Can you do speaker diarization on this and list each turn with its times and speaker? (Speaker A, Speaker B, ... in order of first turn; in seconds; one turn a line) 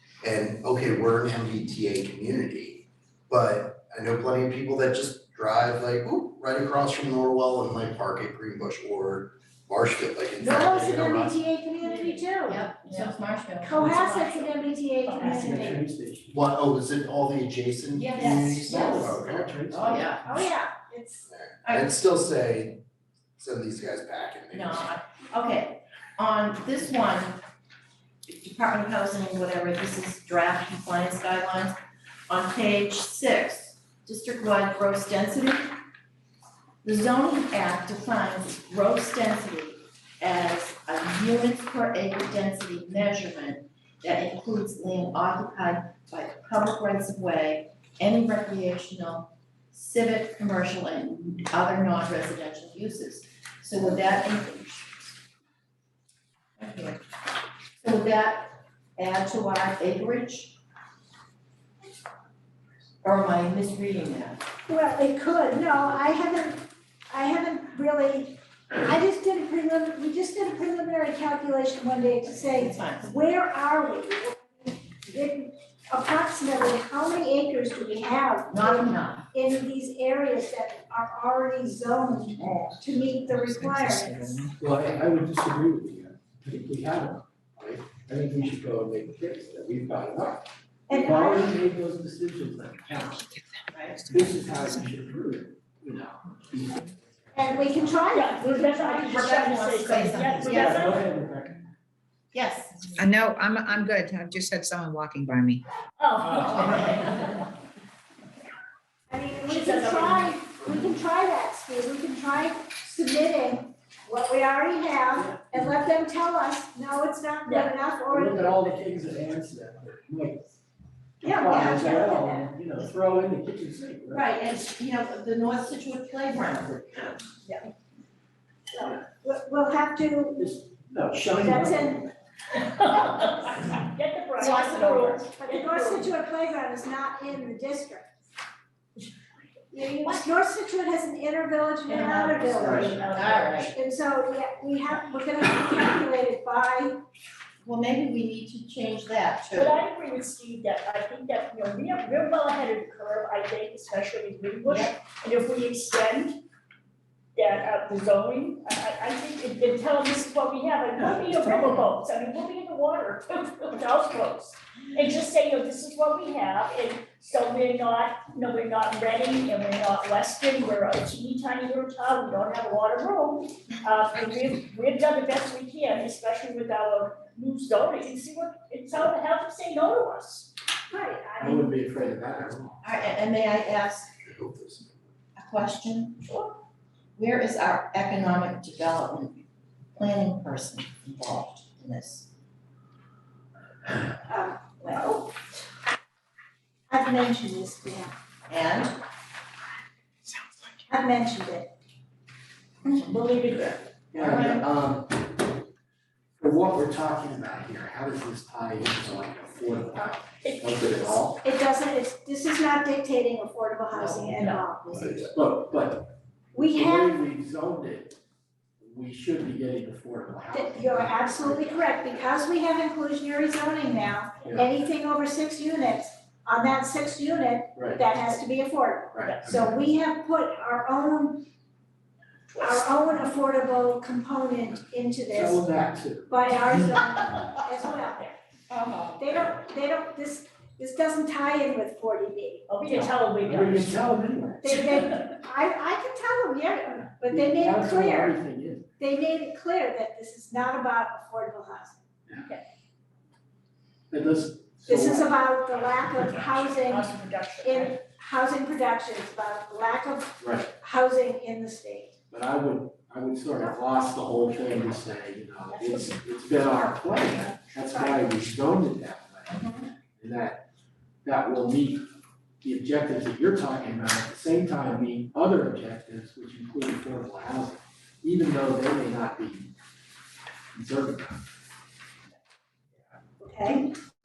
Speaker A: 0.2-11.4
Speaker B: 10.4-15.8
Speaker C: 11.8-12.2
Speaker D: 12.4-14.6
Speaker C: 15.1-15.5
Speaker E: 15.3-16.3
Speaker A: 16.3-19.7
Speaker D: 17.9-20.3
Speaker E: 18.6-20.2
Speaker B: 20.2-21.3
Speaker A: 21.3-22.8
Speaker D: 21.6-21.9
Speaker A: 23.4-24.9
Speaker D: 24.5-27.4
Speaker D: 28.3-31.8
Speaker D: 32.3-35.7
Speaker D: 36.8-55.1
Speaker D: 56.6-57.0
Speaker D: 57.8-60.6
Speaker D: 63.0-64.5
Speaker B: 64.7-84.5
Speaker D: 72.5-73.1
Speaker D: 78.5-79.3
Speaker F: 83.8-84.1
Speaker E: 84.6-93.4
Speaker B: 90.9-91.5
Speaker D: 93.7-94.2
Speaker E: 94.1-96.9
Speaker B: 97.3-99.0
Speaker C: 98.1-101.0
Speaker D: 98.8-101.0
Speaker E: 100.4-101.7
Speaker D: 102.3-102.9
Speaker F: 102.9-105.6
Speaker C: 106.0-107.5
Speaker D: 106.5-107.1
Speaker B: 109.1-118.6
Speaker C: 109.4-110.3
Speaker E: 115.2-115.7
Speaker C: 117.5-117.7
Speaker E: 118.1-120.5
Speaker B: 121.2-122.5
Speaker E: 121.2-124.3
Speaker D: 124.1-127.2
Speaker B: 128.7-130.4
Speaker E: 130.4-132.1
Speaker B: 131.3-132.1
Speaker C: 132.6-136.1
Speaker D: 134.4-135.3
Speaker B: 134.5-138.1
Speaker B: 139.7-147.0
Speaker D: 141.9-143.7
Speaker C: 142.1-143.7
Speaker D: 147.6-149.8
Speaker C: 149.5-156.4
Speaker D: 154.6-154.9
Speaker C: 157.3-180.5
Speaker B: 180.9-181.7
Speaker E: 181.4-183.1
Speaker D: 182.8-184.1
Speaker A: 184.2-185.0
Speaker D: 185.3-186.2
Speaker C: 186.2-186.5
Speaker D: 187.2-192.3
Speaker B: 194.3-195.3
Speaker B: 196.9-198.1
Speaker D: 198.5-199.0
Speaker B: 200.9-201.7
Speaker C: 202.8-203.9
Speaker E: 204.1-205.6
Speaker D: 204.1-204.7
Speaker E: 206.4-211.4
Speaker C: 209.9-211.1
Speaker B: 211.4-214.8
Speaker D: 213.9-215.2
Speaker C: 214.4-214.6
Speaker A: 214.9-215.3
Speaker E: 215.3-218.2
Speaker B: 216.5-217.2
Speaker E: 218.8-221.9
Speaker B: 220.5-231.4
Speaker E: 224.4-224.7
Speaker E: 227.8-228.0
Speaker E: 229.1-229.6
Speaker C: 232.5-232.8
Speaker B: 232.6-235.6
Speaker E: 235.3-236.4
Speaker B: 236.3-238.3
Speaker D: 238.7-239.2
Speaker B: 239.2-242.8
Speaker C: 242.7-244.0
Speaker E: 242.9-244.9
Speaker B: 244.6-248.4
Speaker C: 244.7-245.3
Speaker E: 247.3-248.9
Speaker B: 249.0-252.0
Speaker C: 252.3-252.7
Speaker E: 254.1-255.4
Speaker B: 254.9-257.1
Speaker C: 256.4-258.0
Speaker B: 257.6-262.1
Speaker E: 260.4-260.7
Speaker E: 262.3-270.6
Speaker C: 265.7-266.2
Speaker D: 269.5-269.9
Speaker E: 271.2-272.0
Speaker E: 272.6-279.7
Speaker E: 280.7-281.4
Speaker B: 283.4-283.9